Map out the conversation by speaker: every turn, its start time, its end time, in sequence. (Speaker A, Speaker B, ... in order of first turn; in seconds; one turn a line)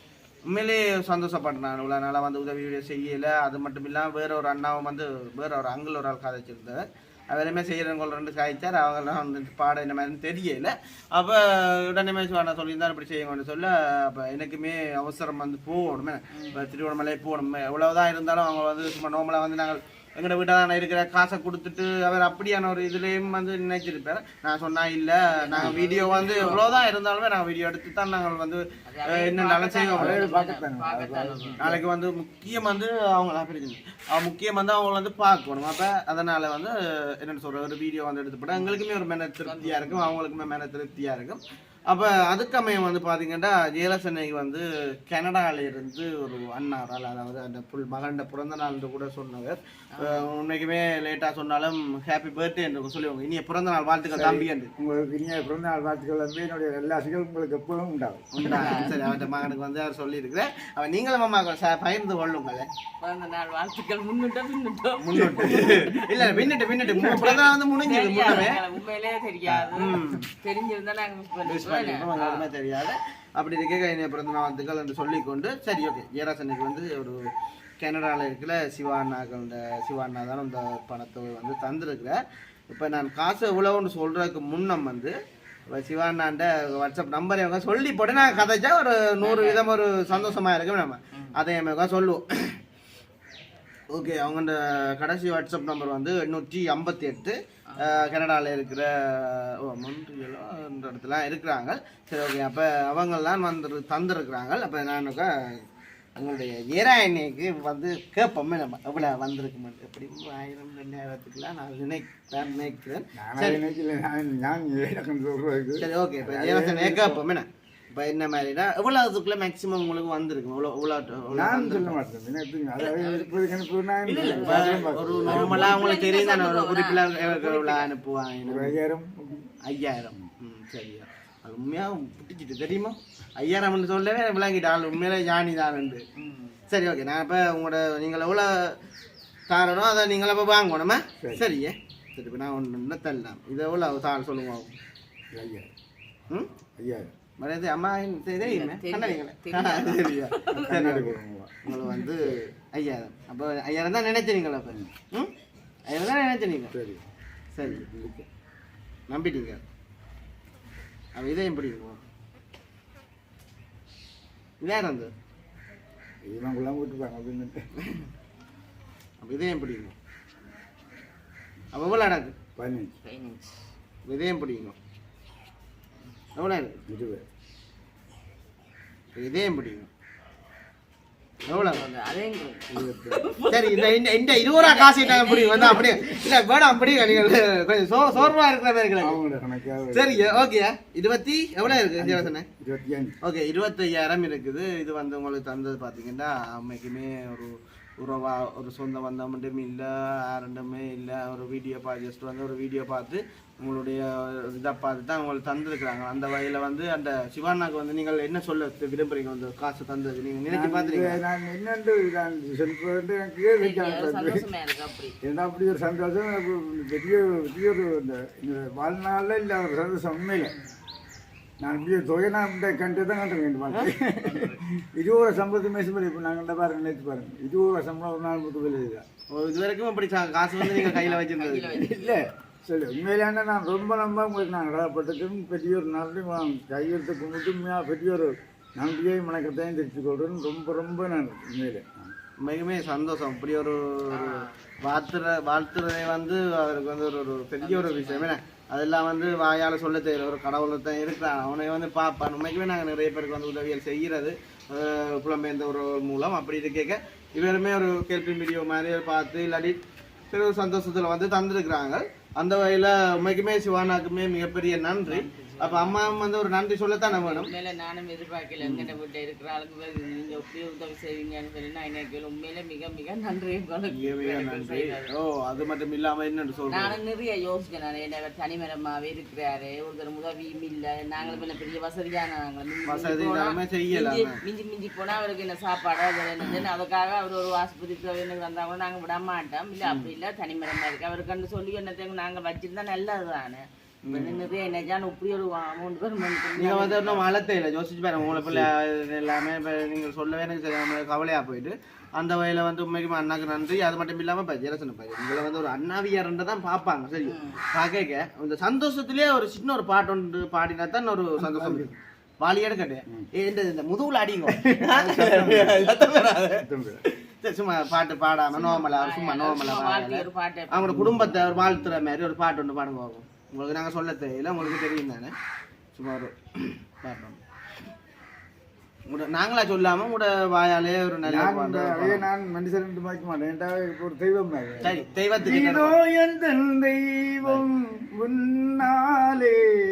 Speaker A: 0.5-30.3
Speaker B: 16.3-16.7
Speaker B: 25.3-26.8
Speaker B: 28.8-31.7
Speaker C: 29.9-31.8
Speaker A: 31.6-54.7
Speaker B: 38.5-38.8
Speaker B: 39.4-40.1
Speaker B: 49.9-50.3
Speaker C: 54.1-58.3
Speaker A: 58.3-62.7
Speaker B: 58.4-59.1
Speaker B: 63.0-72.5
Speaker A: 65.0-68.6
Speaker A: 69.5-70.3
Speaker A: 71.5-77.2
Speaker A: 77.8-82.2
Speaker A: 82.7-85.1
Speaker A: 85.7-92.6
Speaker B: 89.2-90.4
Speaker A: 93.9-105.6
Speaker B: 97.7-98.0
Speaker A: 106.2-113.6
Speaker B: 112.4-112.7
Speaker C: 113.1-117.2
Speaker A: 115.8-122.0
Speaker C: 121.3-125.9
Speaker B: 122.8-123.6
Speaker A: 124.0-128.8
Speaker B: 124.2-127.9
Speaker C: 128.4-129.5
Speaker A: 129.7-136.0
Speaker B: 136.2-136.6
Speaker A: 136.7-138.7
Speaker A: 139.5-144.7
Speaker C: 141.2-141.5
Speaker C: 145.3-145.7
Speaker C: 146.8-147.1
Speaker A: 147.4-155.3
Speaker B: 148.4-150.7
Speaker C: 150.6-151.7
Speaker A: 155.9-156.7
Speaker C: 156.7-157.1
Speaker A: 157.5-157.9
Speaker C: 157.6-158.2
Speaker A: 159.1-159.6
Speaker A: 161.2-162.0
Speaker A: 164.6-165.1
Speaker C: 166.2-167.6
Speaker A: 169.2-169.9
Speaker A: 171.7-172.3
Speaker C: 172.6-172.9
Speaker B: 173.0-173.6
Speaker A: 174.1-174.7
Speaker A: 176.3-176.8
Speaker C: 176.9-177.2
Speaker A: 179.2-179.9
Speaker A: 181.5-181.9
Speaker B: 181.5-183.9
Speaker C: 182.7-183.2
Speaker A: 183.5-189.2
Speaker B: 184.5-186.3
Speaker C: 189.0-190.5
Speaker A: 189.9-192.4
Speaker C: 191.6-193.1
Speaker A: 193.2-211.2
Speaker C: 210.5-214.4
Speaker B: 213.6-215.1
Speaker C: 215.2-220.5
Speaker B: 220.4-220.7
Speaker C: 221.6-229.0
Speaker B: 224.2-224.6
Speaker A: 229.3-231.8
Speaker B: 230.9-232.2
Speaker C: 231.9-242.1
Speaker A: 242.4-259.8
Speaker B: 244.1-244.6
Speaker B: 247.6-248.3
Speaker A: 260.3-267.5
Speaker B: 265.1-266.2
Speaker B: 267.1-275.1
Speaker A: 268.6-268.9
Speaker A: 273.9-277.0
Speaker B: 276.7-297.2
Speaker A: 281.2-281.4
Speaker A: 282.9-284.4
Speaker A: 289.8-290.1
Speaker A: 294.0-294.4
Speaker A: 296.6-325.3
Speaker C: 298.2-298.7
Speaker B: 307.2-307.6
Speaker C: 311.4-311.9
Speaker C: 314.8-315.9
Speaker C: 316.5-317.0
Speaker B: 318.5-321.0
Speaker C: 320.9-321.9
Speaker A: 325.9-327.4
Speaker A: 329.1-332.2
Speaker C: 331.2-339.6
Speaker A: 334.8-336.0
Speaker B: 334.8-335.1